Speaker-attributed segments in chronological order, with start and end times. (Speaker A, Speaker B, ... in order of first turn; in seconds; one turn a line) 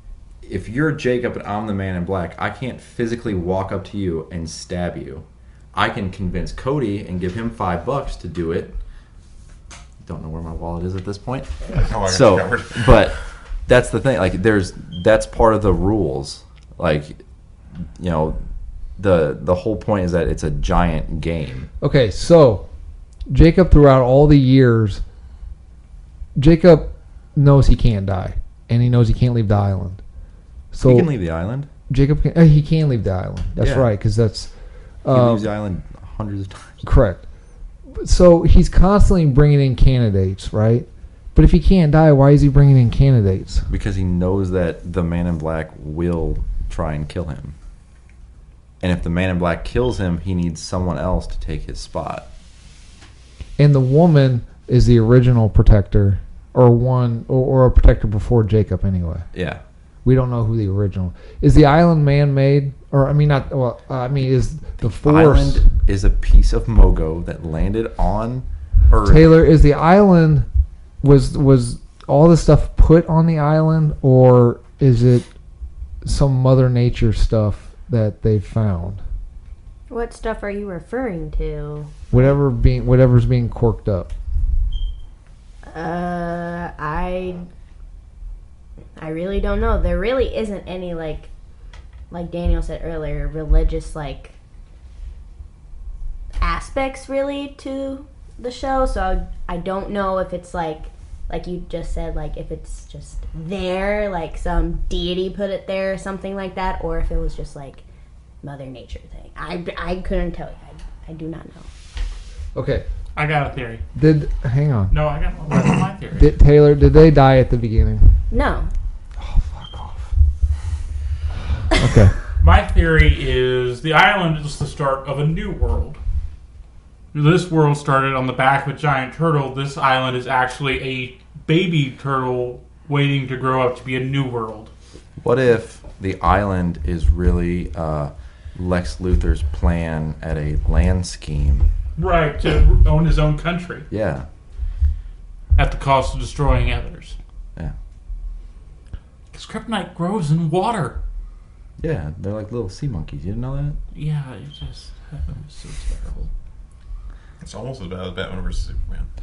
Speaker A: 0.4-8.8
Speaker A: 10.0-13.2
Speaker B: 11.7-13.1
Speaker A: 13.7-17.2
Speaker A: 17.8-18.4
Speaker A: 19.0-21.7
Speaker C: 21.8-22.7
Speaker C: 23.3-25.0
Speaker C: 26.4-30.0
Speaker C: 30.7-31.1
Speaker A: 30.8-31.7
Speaker C: 31.9-34.5
Speaker A: 33.6-33.9
Speaker C: 35.0-35.5
Speaker A: 35.1-36.8
Speaker C: 36.8-37.2
Speaker C: 38.0-43.7
Speaker A: 43.7-47.5
Speaker A: 48.8-52.3
Speaker C: 53.6-59.3
Speaker A: 59.3-59.6
Speaker C: 60.0-65.7
Speaker A: 64.8-69.3
Speaker C: 69.0-70.5
Speaker C: 71.0-75.3
Speaker C: 76.0-79.0
Speaker D: 79.9-82.0
Speaker C: 82.1-84.1
Speaker D: 85.7-87.5
Speaker D: 89.0-91.3
Speaker D: 92.1-94.4
Speaker D: 96.4-107.8
Speaker D: 108.4-111.7
Speaker C: 112.5-112.9
Speaker E: 113.1-113.8
Speaker C: 114.0-114.9
Speaker E: 114.9-116.3
Speaker C: 116.1-118.2
Speaker D: 118.3-118.7
Speaker C: 119.2-120.1
Speaker C: 121.7-122.2
Speaker E: 122.4-126.0
Speaker E: 127.1-134.7
Speaker A: 135.2-141.7
Speaker E: 142.0-143.9
Speaker A: 143.9-144.3
Speaker E: 145.6-147.2
Speaker E: 149.3-151.0
Speaker A: 151.8-153.8
Speaker E: 153.9-156.3
Speaker B: 157.4-159.1